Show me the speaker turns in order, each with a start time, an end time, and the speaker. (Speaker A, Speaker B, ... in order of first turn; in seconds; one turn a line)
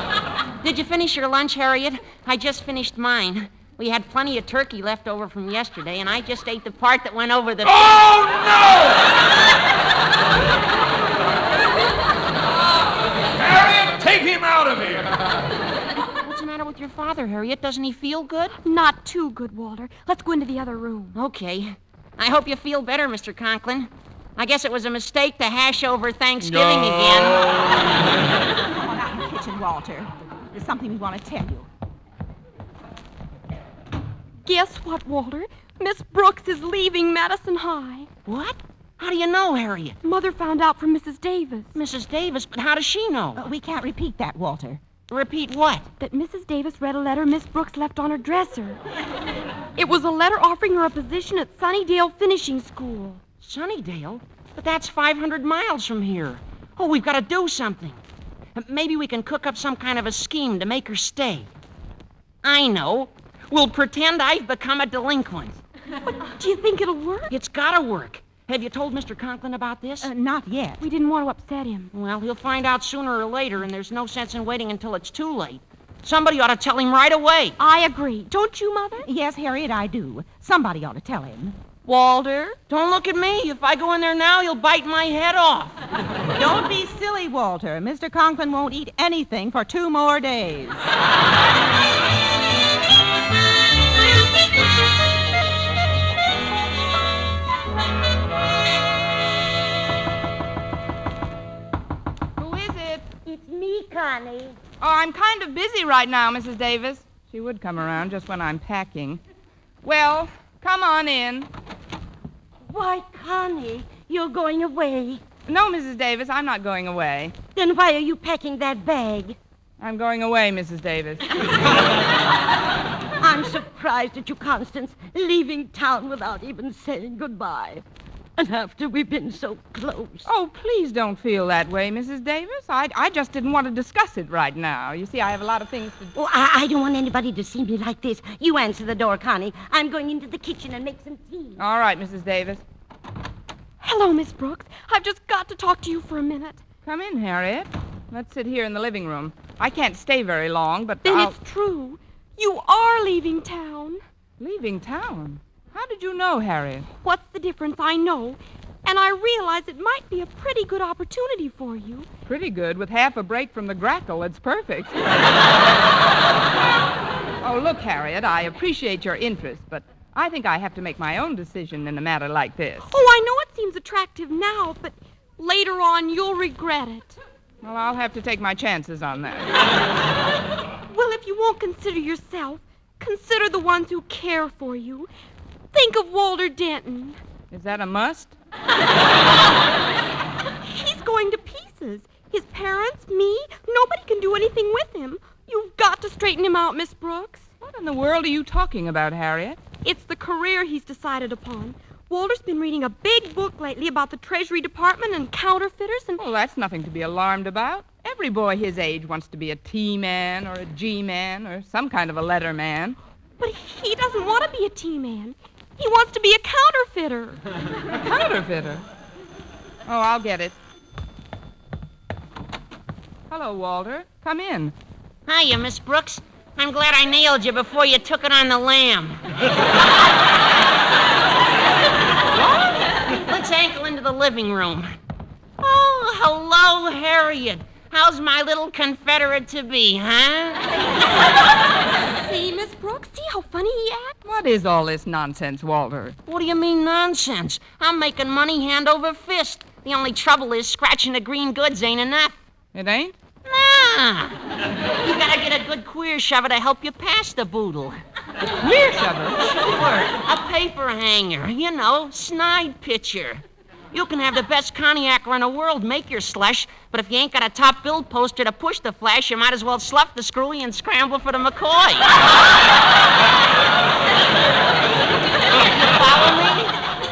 Speaker A: 0.6-8.1
Speaker B: 7.7-9.1
Speaker B: 13.4-15.2
Speaker A: 16.2-18.6
Speaker C: 18.6-21.2
Speaker A: 21.1-27.5
Speaker D: 28.6-31.7
Speaker C: 34.5-38.1
Speaker A: 38.3-40.0
Speaker C: 40.0-41.7
Speaker A: 41.8-43.4
Speaker D: 43.4-44.8
Speaker A: 45.1-45.9
Speaker C: 46.0-48.8
Speaker C: 49.8-53.2
Speaker A: 53.4-58.0
Speaker A: 58.5-61.5
Speaker A: 62.4-65.6
Speaker C: 66.1-67.3
Speaker A: 67.3-70.1
Speaker D: 70.0-70.8
Speaker C: 70.8-71.9
Speaker A: 71.9-77.6
Speaker C: 77.6-79.1
Speaker D: 79.0-81.6
Speaker A: 82.7-85.8
Speaker D: 86.3-90.8
Speaker E: 102.4-103.1
Speaker F: 103.2-104.6
Speaker E: 104.8-109.2
Speaker E: 109.8-111.5
Speaker F: 112.6-115.2
Speaker E: 115.5-117.3
Speaker F: 117.5-119.4
Speaker E: 119.8-121.5
Speaker F: 123.2-127.8
Speaker F: 128.4-130.3
Speaker E: 130.3-136.1
Speaker F: 136.2-141.6
Speaker E: 141.6-142.6
Speaker C: 143.8-146.6
Speaker E: 146.8-151.3
Speaker C: 151.0-154.0
Speaker E: 154.4-156.9
Speaker C: 157.0-162.1
Speaker E: 162.3-165.2
Speaker E: 167.4-172.9
Speaker C: 172.9-177.2
Speaker E: 177.6-179.7
Speaker C: 180.9-185.1
Speaker C: 185.7-187.2
Speaker E: 187.5-188.3
Speaker C: 190.6-197.5
Speaker E: 197.6-199.7
Speaker C: 199.8-206.2
Speaker E: 206.2-213.0
Speaker C: 213.4-217.4
Speaker E: 217.9-218.8
Speaker E: 219.9-220.6
Speaker E: 223.3-224.7
Speaker A: 225.3-229.2
Speaker A: 232.4-234.9
Speaker A: 235.6-240.8
Speaker C: 242.1-244.2
Speaker E: 244.2-246.2
Speaker A: 246.3-252.4
Speaker E: 252.7-253.2
Speaker A: 253.4-254.4
Speaker A: 255.0-258.0
Speaker E: 258.6-260.1
Speaker A: 260.1-272.2
Speaker A: 275.6-276.7